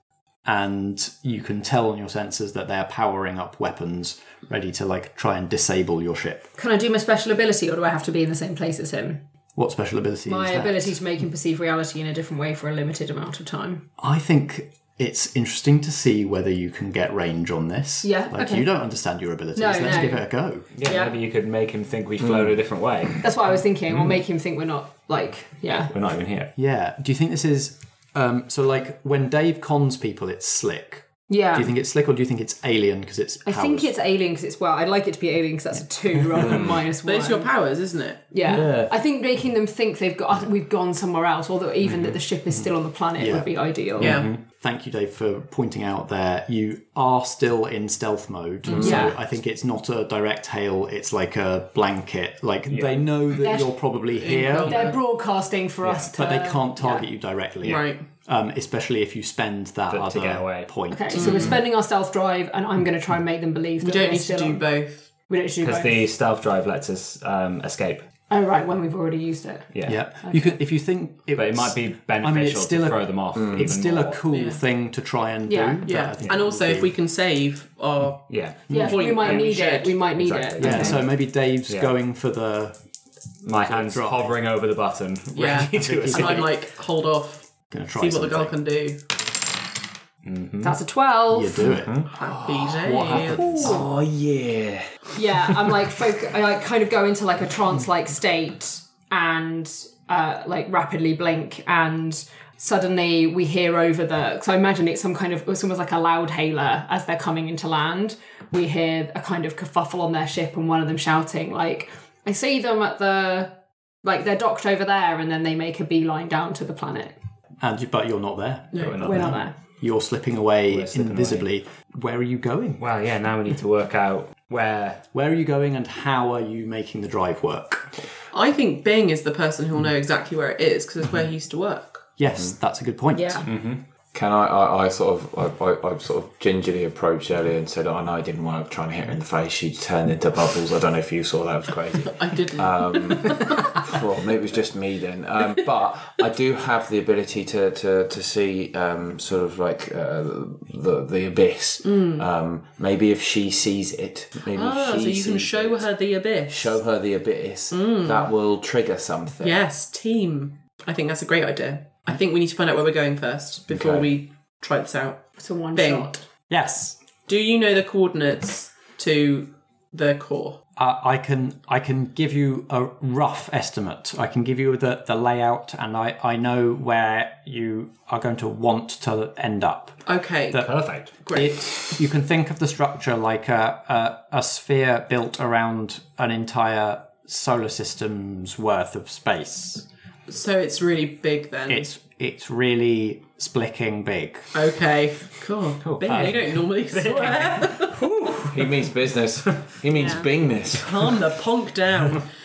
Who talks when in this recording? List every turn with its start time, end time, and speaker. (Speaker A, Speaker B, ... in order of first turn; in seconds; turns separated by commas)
Speaker A: 0.4-6.5, Speaker B: 6.6-9.2, Speaker A: 9.6-11.0, Speaker B: 10.2-13.8, Speaker A: 14.0-20.7, Speaker B: 18.0-18.7, Speaker B: 19.5-21.1, Speaker C: 20.7-23.1, Speaker D: 22.2-22.5, Speaker B: 23.2-25.9, Speaker C: 23.9-24.1, Speaker C: 25.9-26.5, Speaker A: 26.5-33.9, Speaker B: 31.3-31.7, Speaker B: 33.4-37.5, Speaker C: 36.4-36.7, Speaker E: 37.0-38.4, Speaker B: 38.3-44.2, Speaker D: 38.5-38.8, Speaker A: 38.5-38.9, Speaker C: 41.8-42.2, Speaker A: 42.5-43.5, Speaker C: 44.0-44.4, Speaker E: 44.0-44.3, Speaker A: 44.1-54.9, Speaker D: 48.7-49.0, Speaker B: 48.8-49.1, Speaker C: 48.8-49.1, Speaker C: 52.7-53.2, Speaker B: 53.4-54.0, Speaker E: 54.0-55.0, Speaker B: 54.6-57.1, Speaker C: 55.8-56.1, Speaker A: 56.1-61.3, Speaker E: 57.6-58.1, Speaker C: 59.9-61.5, Speaker B: 60.9-66.0, Speaker E: 61.1-61.6, Speaker E: 63.8-65.2, Speaker C: 65.6-68.0, Speaker B: 68.3-70.6, Speaker C: 69.7-70.0, Speaker A: 69.8-76.9, Speaker C: 71.3-74.2, Speaker D: 73.3-73.7, Speaker E: 74.3-74.6, Speaker B: 75.5-76.0, Speaker E: 75.8-80.1, Speaker C: 78.3-79.5, Speaker A: 78.7-79.0, Speaker B: 78.7-81.0, Speaker C: 80.2-81.9, Speaker A: 80.6-82.8, Speaker C: 83.4-86.5, Speaker A: 83.6-84.4, Speaker E: 85.3-89.0, Speaker A: 85.8-86.5, Speaker A: 87.7-88.6, Speaker C: 90.2-90.8, Speaker B: 90.6-91.8, Speaker A: 91.3-92.0, Speaker E: 92.1-93.7, Speaker D: 92.2-95.0, Speaker A: 92.8-93.8, Speaker B: 95.2-117.2, Speaker A: 117.6-122.8, Speaker E: 118.7-119.1, Speaker C: 118.8-119.5, Speaker B: 119.0-119.5, Speaker C: 120.7-121.5, Speaker C: 122.8-125.0, Speaker A: 125.1-128.0, Speaker E: 128.3-132.1, Speaker A: 132.2-133.4, Speaker B: 133.1-133.4, Speaker C: 133.4-133.8, Speaker D: 134.1-159.6, Speaker E: 142.0-143.8, Speaker E: 151.8-152.3, Speaker E: 154.5-156.8, Speaker E: 157.7-158.3, Speaker E: 159.4-166.2, Speaker D: 163.7-164.1, Speaker B: 165.4-166.1, Speaker A: 166.5-167.0, Speaker E: 167.2-170.6, Speaker A: 170.8-189.8, Speaker E: 180.0-181.9, Speaker C: 180.6-181.2, Speaker E: 190.3-191.9, Speaker A: 191.7-194.5, Speaker E: 194.5-198.4, Speaker C: 195.8-198.8, Speaker A: 196.0-196.3, Speaker D: 198.5-201.1, Speaker B: 199.9-200.2, Speaker E: 200.7-202.3